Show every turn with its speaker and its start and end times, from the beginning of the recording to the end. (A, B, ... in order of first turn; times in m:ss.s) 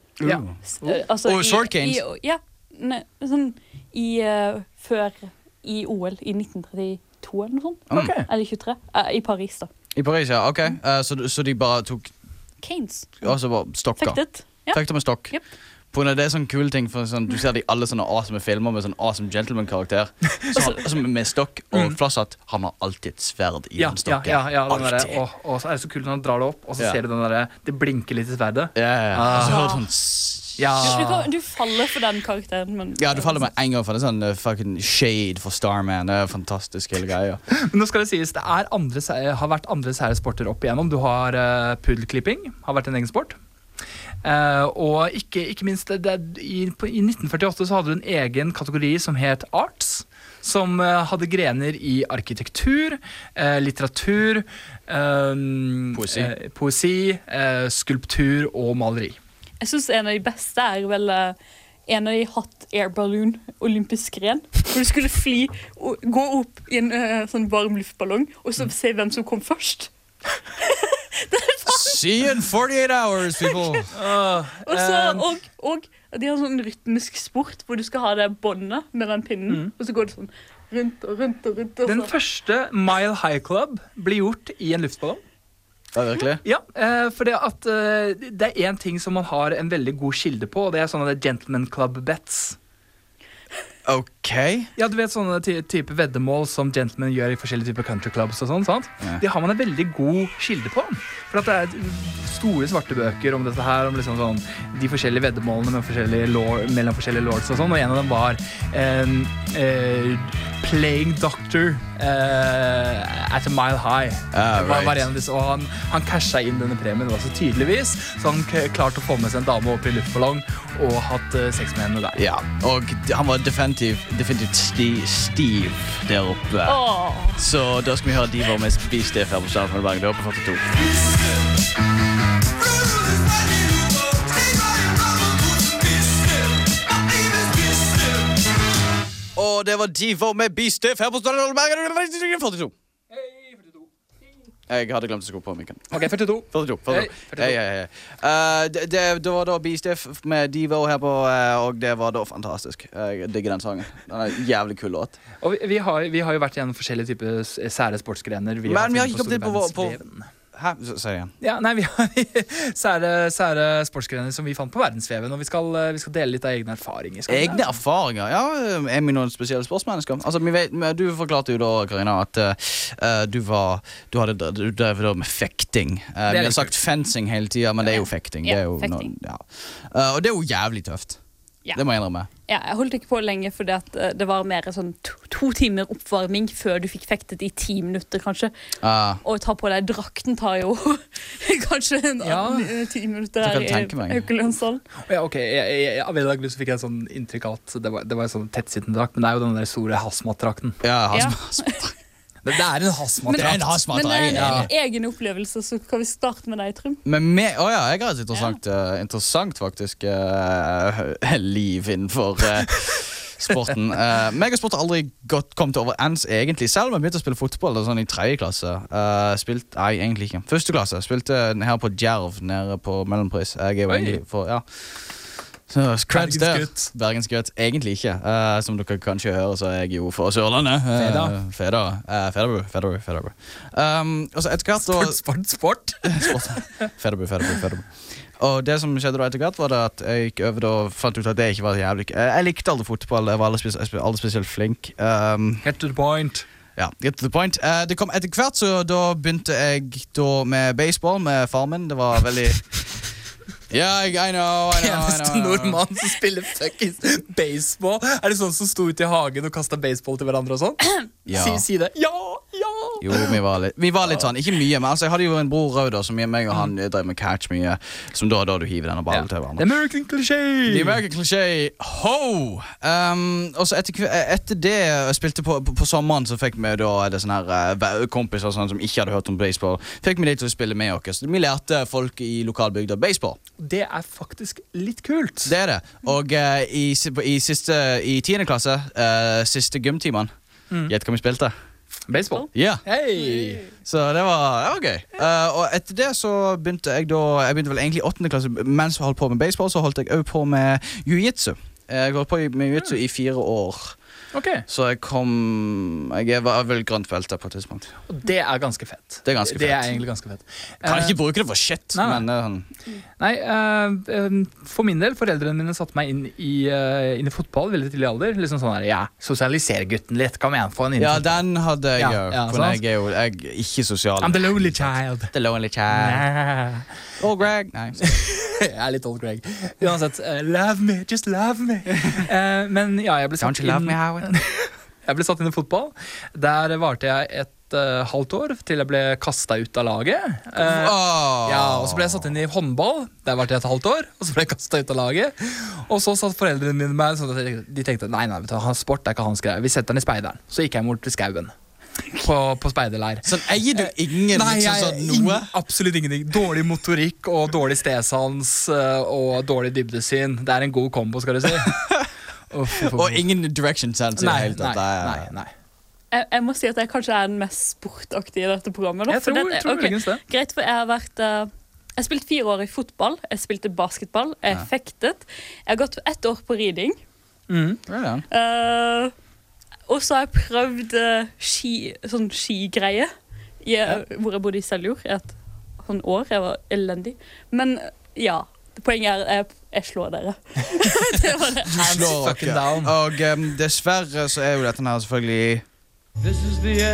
0:00.2-0:02.0 A
0:00.2-0:00.9 B
0:00.8-0:09.7 C
0:07.9-0:08.3 B
0:10.0-0:12.1 A
0:12.6-0:13.3 C
0:13.2-0:14.2 A
0:14.0-0:15.4 C
0:14.7-0:15.4 A
0:15.9-0:25.2 A
0:23.8-0:29.7 B
0:28.8-0:30.9 A
0:29.4-0:29.8 C
0:30.6-0:31.3 B
0:30.8-0:33.5 C
0:33.0-0:37.4 A
0:37.5-0:43.4 B
0:44.2-0:59.2 B
0:55.9-0:56.3 A
0:59.6-1:01.4 C
1:01.9-1:09.9 C
1:10.6-1:12.0 C
1:11.7-1:13.9 A
1:13.3-1:13.8 C
1:13.9-1:15.3 B
1:14.6-1:22.1 C
1:21.8-1:25.2 B
1:25.9-1:26.4 A
1:26.4-1:32.6 B
1:33.8-1:34.7 A
1:34.8-2:02.2 B
1:54.3-1:55.1 A
2:02.2-2:06.8 A
2:06.6-2:07.4 C
2:07.4-2:11.3 A
2:12.9-2:16.3 A
2:19.4-2:22.7 A
2:23.1-2:23.9 B
2:24.7-2:35.2 A
2:25.9-2:27.6 B
2:35.4-2:40.3 B
2:38.7-2:40.0 A
2:40.5-2:41.3 A
2:41.4-2:47.7 B
2:47.3-3:01.2 A
2:56.3-2:56.7 B
2:57.9-2:59.1 C
3:01.8-3:02.3 A
3:02.5-3:08.5 C
3:08.8-3:09.2 A
3:09.2-3:14.8 C
3:12.2-3:12.7 B
3:13.4-3:14.3 A
3:15.1-3:20.8 B
3:20.8-3:22.0 A
3:21.1-3:21.8 C
3:22.4-3:23.7 B
3:23.3-3:27.0 C
3:23.3-3:24.7 A
3:24.3-3:24.7 B
3:27.0-3:55.2 A
3:43.9-3:44.2 B
3:46.1-3:46.9 B
3:51.0-3:51.4 B
3:54.8-3:56.6 B
3:56.0-4:05.6 A
4:05.6-4:06.5 B
4:06.8-4:12.8 A
4:13.7-4:15.9 A
4:14.7-4:23.3 B
4:21.3-4:21.6 A
4:23.0-4:29.7 A
4:29.1-4:31.0 B
4:30.7-4:43.4 A
4:43.6-4:45.6 B
4:45.4-4:50.3 A
4:50.9-4:51.5 A
4:52.1-4:53.7 B
4:52.5-5:04.0 A
5:04.3-5:04.6 B
5:04.7-5:07.9 A
5:08.1-5:11.2 B
5:09.2-5:10.0 A
5:10.8-5:12.7 A
5:11.9-5:12.2 B
5:13.2-5:21.4 B
5:21.0-5:26.3 A
5:22.0-5:22.8 B
5:24.2-5:25.3 B
5:25.9-5:26.9 B
5:27.2-5:28.0 A
5:28.0-5:51.5 B
5:33.4-5:34.4 A
5:40.6-5:42.3 A
5:52.1-6:01.8 B
5:53.2-5:55.5 A
6:01.7-6:02.1 A
6:02.5-6:03.2 B
6:02.8-6:05.3 A
6:04.2-6:05.5 B
6:06.1-6:17.0 C
6:09.1-6:10.2 B
6:17.5-6:17.8 B
6:17.9-6:18.2 A
6:18.3-6:19.1 C
6:19.9-6:23.1 C
6:23.6-6:31.8 C
6:31.7-6:33.0 B
6:31.7-6:35.6 A